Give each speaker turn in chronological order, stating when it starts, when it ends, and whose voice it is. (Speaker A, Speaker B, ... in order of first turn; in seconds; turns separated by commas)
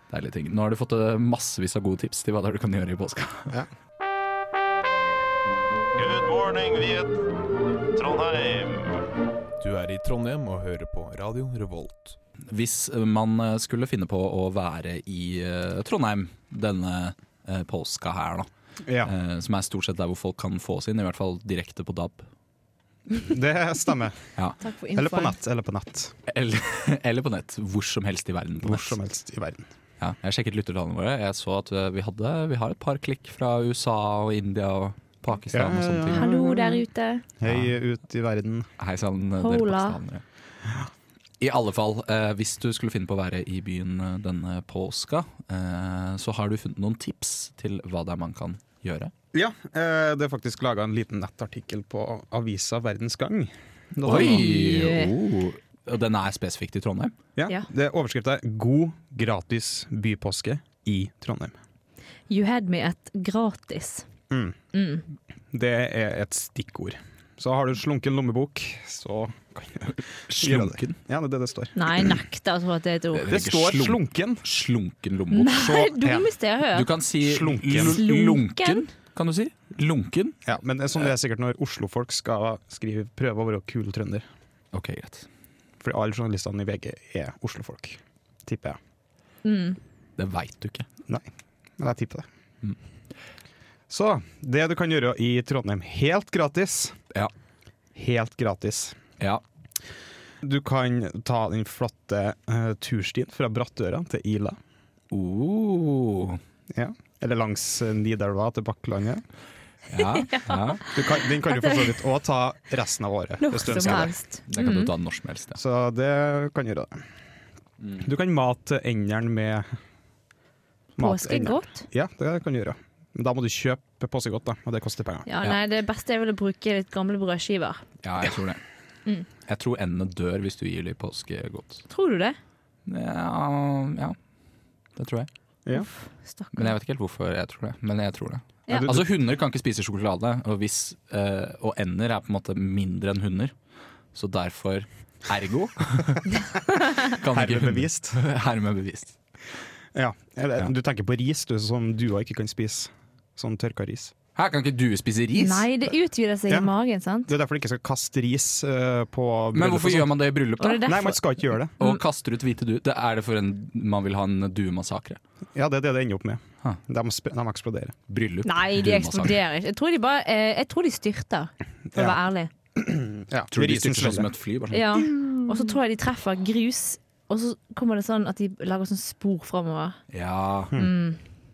Speaker A: 0.1-3.5, Speaker B: 6.0-7.2, Speaker B: 8.0-9.1, Speaker C: 9.7-11.9, Speaker A: 12.5-18.5, Speaker D: 18.8-19.1, Speaker A: 19.0-22.3, Speaker D: 23.2-24.2, Speaker E: 24.6-25.4, Speaker D: 24.9-26.1, Speaker A: 26.3-29.0, Speaker D: 28.6-29.7, Speaker A: 30.0-36.3, Speaker D: 35.5-36.8, Speaker E: 36.1-37.2, Speaker D: 37.4-38.7, Speaker A: 37.4-37.7, Speaker A: 38.8-40.2, Speaker E: 39.4-40.0, Speaker A: 41.4-49.1, Speaker D: 49.3-54.5, Speaker A: 54.0-57.1, Speaker E: 54.0-55.1, Speaker D: 57.4-61.6, Speaker E: 62.3-64.1, Speaker D: 64.3-64.6, Speaker E: 64.7-65.0, Speaker D: 65.5-72.2, Speaker A: 70.3-71.0, Speaker E: 71.8-73.4, Speaker A: 73.1-75.6, Speaker D: 73.3-74.4, Speaker E: 75.3-76.9, Speaker D: 75.5-76.3, Speaker A: 76.7-80.4, Speaker D: 77.2-78.0, Speaker E: 77.8-78.8, Speaker D: 80.5-84.3, Speaker A: 84.7-85.3, Speaker D: 85.8-88.8, Speaker E: 89.5-89.8, Speaker A: 90.2-90.9, Speaker D: 91.1-92.3, Speaker D: 93.9-97.0, Speaker D: 98.0-99.0, Speaker D: 100.4-104.6, Speaker A: 105.1-106.4, Speaker D: 106.7-109.2, Speaker A: 109.9-110.8, Speaker E: 110.0-110.6, Speaker D: 110.9-114.1, Speaker E: 111.5-111.9, Speaker E: 113.4-114.9, Speaker A: 113.7-115.6, Speaker D: 115.6-117.0, Speaker A: 117.8-118.1, Speaker D: 118.0-119.7, Speaker D: 121.0-125.3, Speaker E: 121.0-121.9, Speaker E: 125.3-127.8, Speaker A: 128.0-128.6, Speaker A: 129.5-131.8, Speaker E: 131.9-132.4, Speaker A: 132.9-134.2, Speaker A: 135.0-135.3, Speaker E: 135.7-136.7, Speaker A: 136.5-143.5, Speaker D: 138.7-139.0, Speaker A: 144.1-146.4, Speaker A: 146.9-149.2, Speaker D: 147.2-148.2, Speaker D: 149.9-154.1, Speaker A: 154.3-155.7, Speaker E: 155.4-157.3, Speaker D: 157.3-160.1, Speaker A: 159.5-160.9, Speaker E: 160.6-161.2, Speaker D: 160.8-161.8, Speaker A: 161.8-165.2, Speaker D: 165.5-167.9, Speaker A: 168.1-169.4, Speaker E: 168.4-172.5, Speaker D: 171.9-172.2, Speaker D: 172.8-174.3, Speaker A: 173.5-174.9, Speaker E: 174.7-180.0, Speaker A: 180.1-180.8, Speaker E: 180.8-181.2